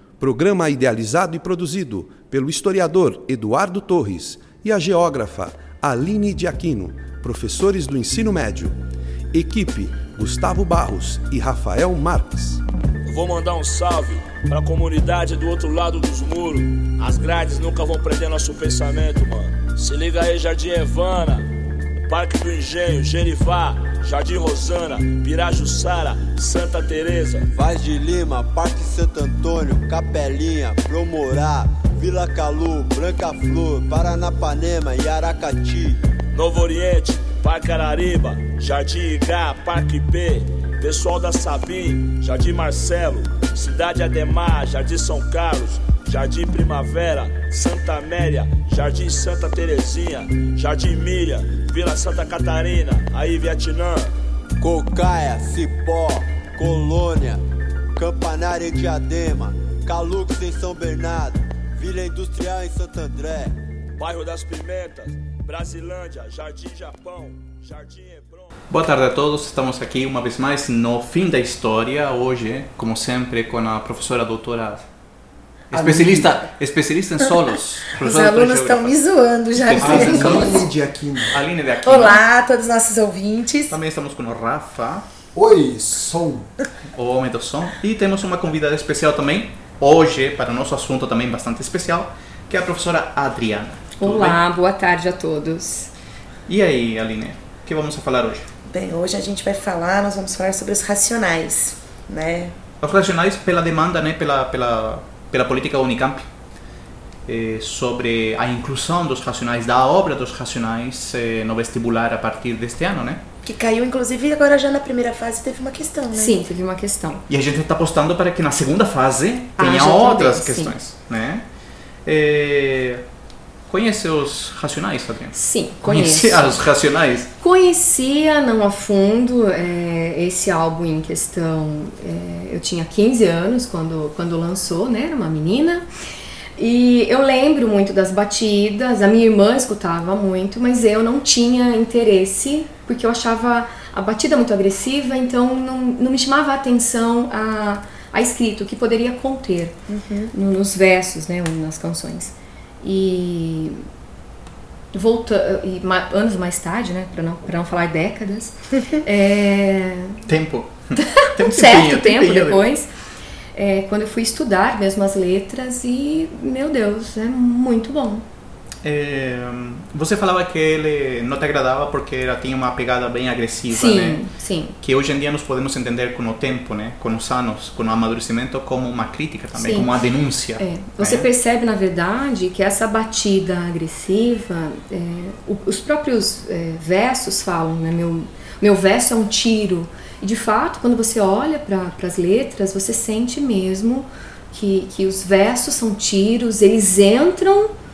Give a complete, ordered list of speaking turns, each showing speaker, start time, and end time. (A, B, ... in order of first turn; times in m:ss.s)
0:00.2-0:08.7 A
0:09.3-0:12.6 A
0:13.0-0:21.5 B
0:22.0-0:27.5 B
0:27.5-0:36.0 C
0:36.3-0:54.1 B
0:54.6-0:57.4 C
0:58.0-1:03.5 C
1:04.0-1:08.5 B
1:08.7-1:14.8 D
1:15.7-1:19.0 D
1:15.9-1:16.3 E
1:17.9-1:20.6 F
1:19.5-1:20.7 D
1:19.8-1:21.4 E
1:21.3-1:22.2 D
1:21.8-1:23.8 F
1:23.7-1:25.0 D
1:25.3-1:26.5 E
1:27.0-1:34.4 D
1:34.0-1:35.9 G
1:36.5-1:38.5 D
1:38.7-1:42.5 F
1:42.8-1:46.2 D
1:47.3-1:53.2 D
1:53.4-1:56.4 F
1:56.1-1:57.2 G
1:57.3-2:01.4 D
1:59.6-2:00.7 G
2:02.0-2:03.0 D
2:03.7-2:07.3 D
2:05.3-2:06.6 G
2:07.4-2:15.8 G
2:16.6-2:29.7 G
2:29.9-2:30.3 F
2:30.3-2:33.8 G
2:34.9-2:40.2 G
2:40.2-2:42.6 D
2:41.0-2:42.9 G
2:43.5-2:48.2 G
2:48.8-2:54.2 D
2:53.7-2:54.7 G
2:54.8-3:01.3 D
2:59.5-2:59.9 G
3:00.6-3:17.7 G